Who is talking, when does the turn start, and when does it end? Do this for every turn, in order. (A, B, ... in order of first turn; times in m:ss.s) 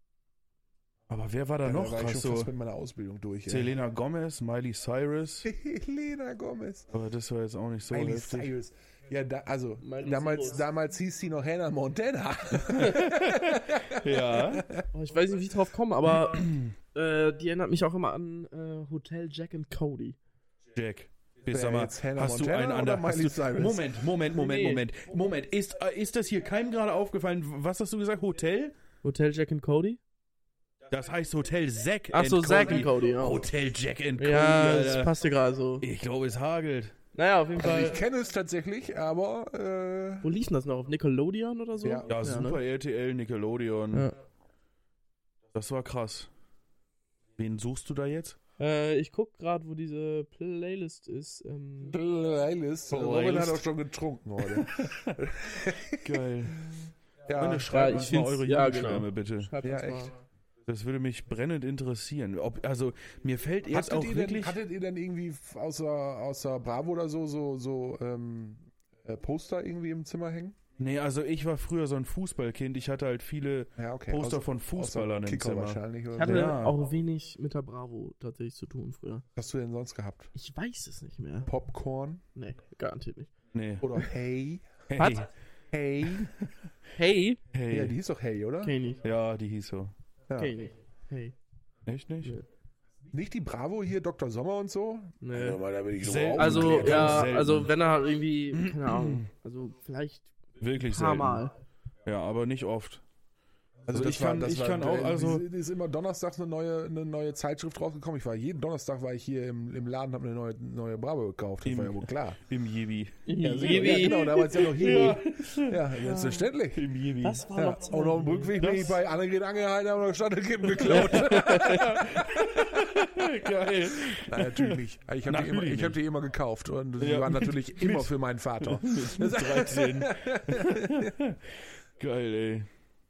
0:01.1-0:02.5 A
0:01.6-0:03.7 B
0:03.5-0:05.5 A
0:05.4-0:06.9 B
0:06.9-0:08.5 A
0:07.9-0:14.8 B
0:09.8-0:10.6 C
0:12.7-0:14.6 A
0:14.9-0:20.2 C
0:16.2-0:16.7 A
0:20.7-0:28.7 A
0:21.5-0:23.9 B
0:24.3-0:24.8 C
0:29.0-0:30.0 C
0:30.9-0:35.1 A
0:32.1-0:33.5 C
0:34.2-0:35.8 C
0:35.8-0:36.9 A
0:37.1-0:38.0 C
0:37.6-0:40.3 B
0:40.2-0:42.6 C
0:41.8-0:42.1 B
0:42.1-0:44.1 A
0:45.5-0:46.3 A
0:47.4-0:48.4 A
0:48.6-0:52.0 C
0:51.8-0:56.2 B
0:52.9-0:53.6 A
0:54.4-0:55.1 A
0:56.0-0:56.6 A
0:57.3-0:57.7 B
0:57.4-0:59.5 A
0:57.7-1:00.1 C
0:59.6-1:00.1 B
1:00.7-1:04.6 A
1:03.7-1:10.6 B
1:10.8-1:16.8 A
1:13.8-1:16.6 B
1:16.2-1:19.2 C
1:19.4-1:20.3 B
1:20.3-1:21.5 C
1:21.4-1:22.2 B
1:22.4-1:23.3 C
1:23.5-1:23.8 A
1:23.8-1:24.8 B
1:24.9-1:25.3 A
1:25.0-1:25.2 C
1:25.7-1:26.3 B
1:26.2-1:26.5 A
1:26.9-1:27.4 C
1:27.5-1:27.9 A
1:27.7-1:28.7 B
1:28.6-1:29.0 C
1:29.0-1:29.9 A
1:30.4-1:31.3 C
1:31.8-1:32.4 A
1:33.1-1:37.3 B
1:35.2-1:35.6 C
1:36.0-1:37.7 A
1:36.4-1:41.5 C
1:38.5-1:39.2 A
1:40.6-1:41.4 A
1:42.0-1:43.0 A
1:43.9-1:52.4 B
1:43.9-1:45.4 A
1:51.6-1:57.5 A
1:53.2-1:55.2 C
1:53.4-1:56.8 B
1:56.0-1:56.4 C
1:57.2-1:58.5 C
1:57.5-2:02.9 B
1:58.6-1:59.0 A
2:00.8-2:06.0 A
2:00.9-2:01.9 C
2:04.1-2:11.1 B
2:07.0-2:12.7 A